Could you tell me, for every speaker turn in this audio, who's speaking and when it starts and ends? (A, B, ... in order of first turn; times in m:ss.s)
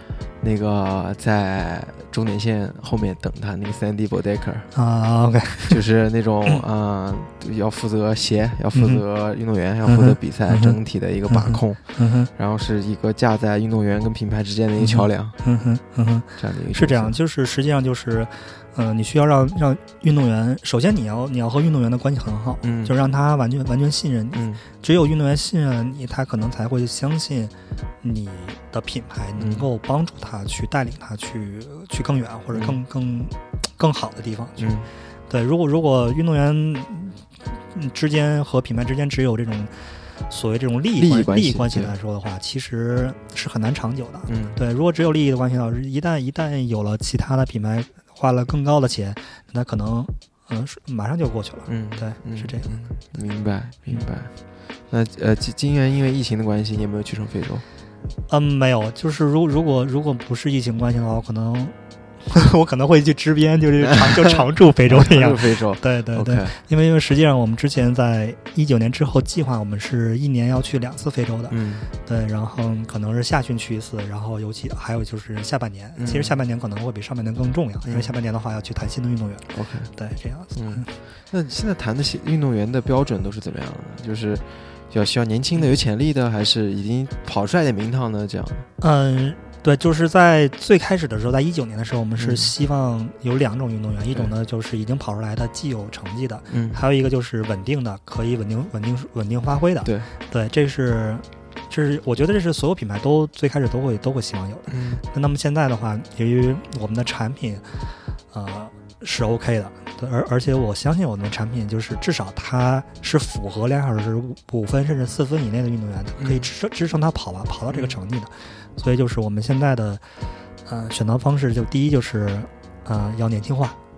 0:00.4-0:04.7 A
0:04.7-0:05.8 B
0:05.7-0:15.3 A
0:08.7-0:09.0 B
0:09.8-0:12.3 B
0:14.8-0:34.7 B
0:16.4-0:17.2 A
0:22.6-0:22.9 A
0:24.3-0:24.6 A
0:29.4-0:29.6 A
0:32.5-0:32.8 A
0:34.6-0:34.9 A
0:35.3-0:39.7 B
0:40.3-0:53.0 B
0:41.0-0:41.9 A
0:44.3-0:44.6 A
0:51.7-0:54.3 A
0:54.9-0:57.6 A
0:58.3-1:01.7 B
1:02.2-1:20.9 B
1:03.8-1:06.5 A
1:11.5-1:11.9 A
1:16.0-1:16.4 A
1:17.8-1:18.1 A
1:19.5-1:19.9 A
1:20.5-1:28.6 A
1:28.8-2:00.0 B
1:32.2-1:32.5 A
1:36.5-1:36.8 A
1:39.8-1:40.1 A
1:44.7-1:45.0 A
1:56.2-1:56.5 A
1:57.7-1:58.0 A
2:00.6-2:03.8 B